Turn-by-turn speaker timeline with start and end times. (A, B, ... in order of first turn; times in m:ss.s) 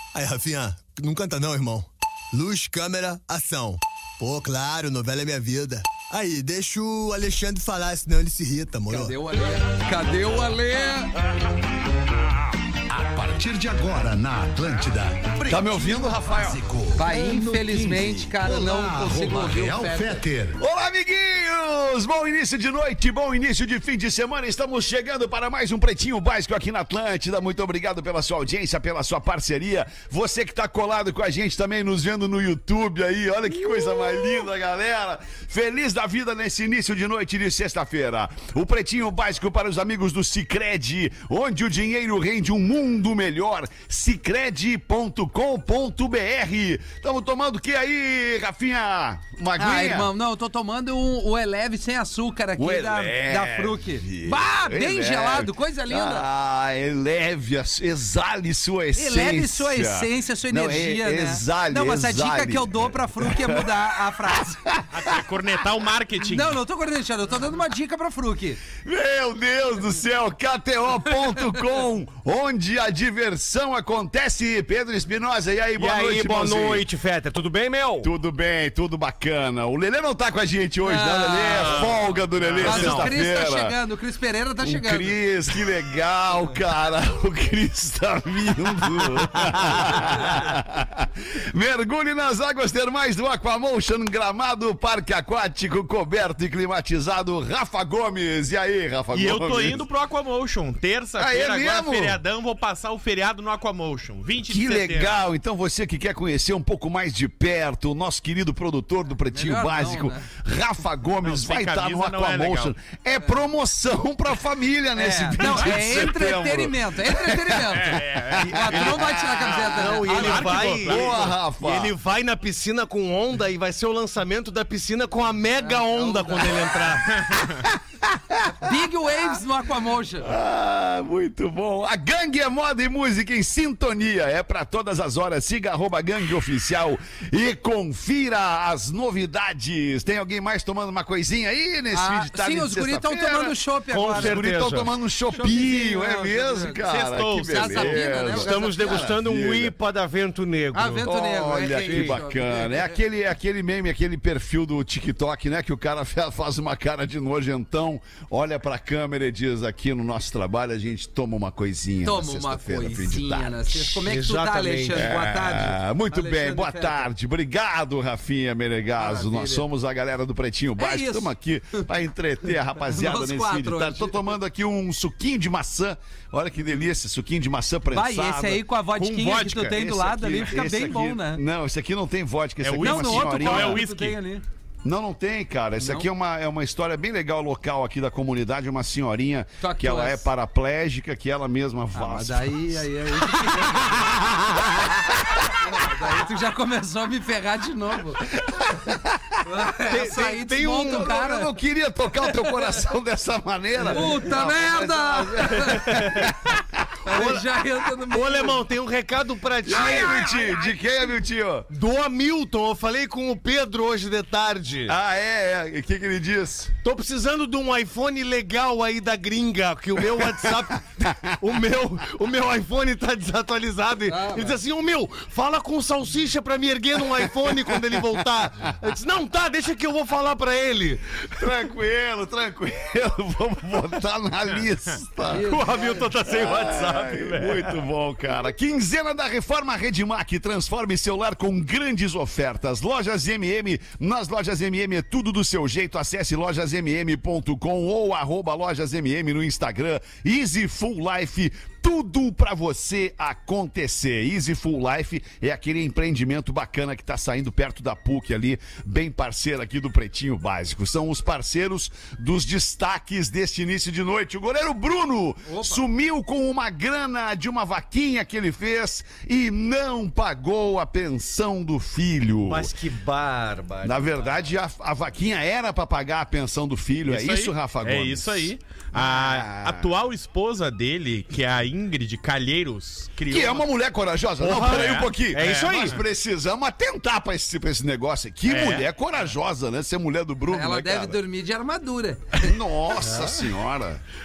0:00.1-0:09.2 A
0:08.9-0:11.1 B
0:12.9-0:20.6 C
0:15.5-0:16.6 D
0:17.0-0:20.2 B
0:20.6-0:50.1 D
0:49.6-0:56.3 B
0:52.6-1:05.2 D
0:59.0-1:04.8 B
1:04.9-1:06.6 E
1:06.2-1:08.6 B
1:08.8-1:16.9 D
1:15.8-1:18.1 F
1:18.0-1:23.8 D
1:20.8-1:21.9 B
1:21.6-1:23.1 E
1:22.6-1:25.2 B
1:24.6-1:39.8 D
1:39.1-1:45.2 E
1:41.2-1:42.2 D
1:44.5-1:59.2 D
1:49.3-1:50.3 B
1:51.2-1:52.7 E
1:55.0-2:00.8 B
1:55.4-1:55.8 E
1:57.7-2:01.4 E
1:59.6-2:07.4 F
2:00.6-2:01.9 D
2:05.6-2:07.0 B
2:07.2-2:07.6 E
2:07.4-2:08.7 D
2:08.5-2:10.3 B
2:10.2-2:29.8 D
2:21.9-2:24.6 B
2:23.9-2:24.9 F
2:25.3-2:26.9 B
2:26.8-2:28.0 E
2:27.5-2:29.1 B
2:28.3-2:31.1 F
2:30.7-2:33.0 B
2:31.0-2:44.0 D
2:31.8-2:32.2 F
2:42.0-2:47.1 B
2:44.0-2:45.2 F
2:44.9-2:58.6 D
2:49.0-2:49.7 B
2:50.8-2:51.3 B
2:52.8-2:54.2 B
2:57.9-3:01.4 B
2:59.0-2:59.8 E
2:59.7-3:03.8 D
3:02.6-3:04.2 E
3:02.8-3:04.4 B
3:04.8-3:15.7 D
3:05.8-3:06.1 B
3:09.6-3:10.3 B
3:11.9-3:14.2 B
3:15.5-3:18.4 B
3:18.3-3:19.3 D
3:19.4-3:21.5 B
3:19.9-3:21.1 F
3:20.8-3:27.0 D
3:23.8-3:26.3 B
3:25.8-3:26.3 F
3:27.0-3:28.6 B
3:27.1-3:27.5 F
3:28.0-3:30.3 F
3:29.6-3:31.7 D
3:29.7-3:30.3 B
3:31.7-3:34.9 F
3:34.9-3:36.7 D
3:36.8-3:51.4 F
3:40.1-3:41.4 D
3:44.1-3:44.6 B
3:47.4-3:48.2 D
3:51.4-3:55.6 D
3:55.3-3:56.1 B
3:55.4-3:57.8 E
3:56.2-4:32.7 D
4:25.5-4:25.8 B
4:32.4-4:34.0 F
4:33.8-4:39.9 D
4:37.1-4:43.7 E
4:43.3-4:51.2 D
4:44.4-4:46.0 F
4:44.5-4:46.0 E
4:48.5-4:48.9 E
4:50.5-4:52.5 B
4:52.4-4:54.0 D